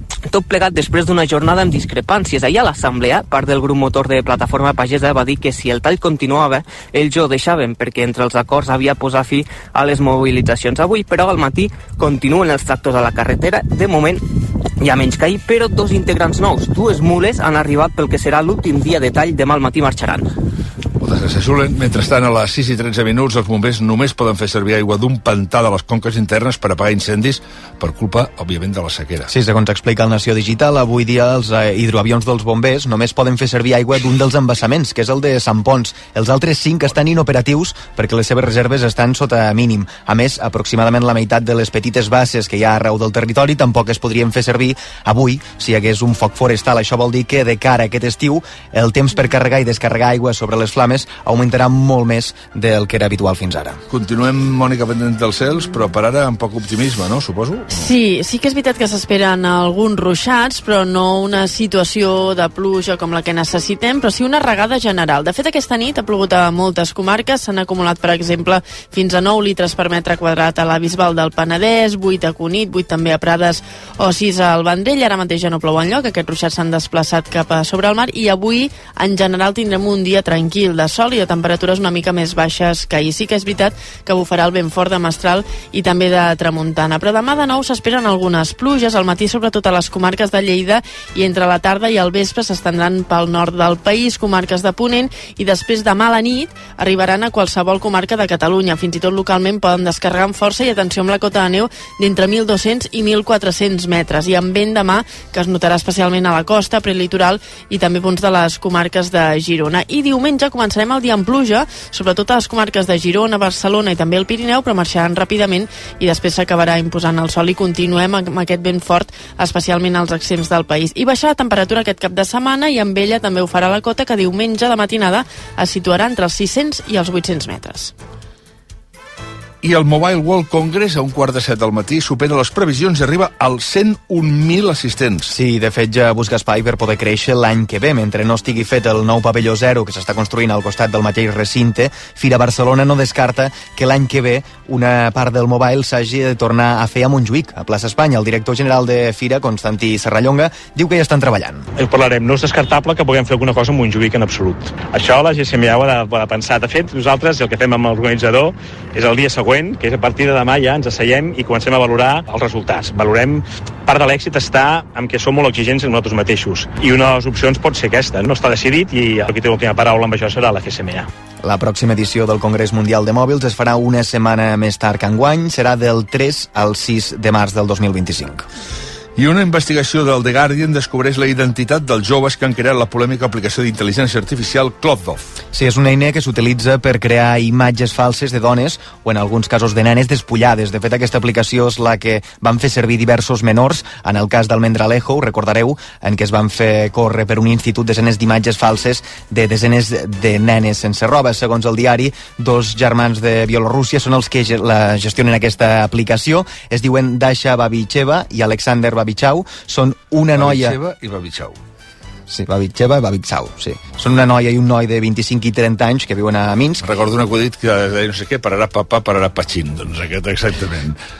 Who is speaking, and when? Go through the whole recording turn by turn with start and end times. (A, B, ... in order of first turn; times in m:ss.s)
0:00.3-0:14.2 A
0:14.8-0:20.3 A
0:21.0-0:29.3 B
0:29.3-0:53.8 C
0:53.9-0:57.9 B
0:57.7-2:07.9 D
2:09.6-2:15.3 B
2:15.3-2:31.7 C
2:31.8-2:51.1 E
2:51.4-2:58.4 C
2:59.2-3:05.4 B
3:05.5-3:30.8 C
3:30.3-3:31.6 B
3:32.3-3:36.8 C
3:36.8-3:41.0 B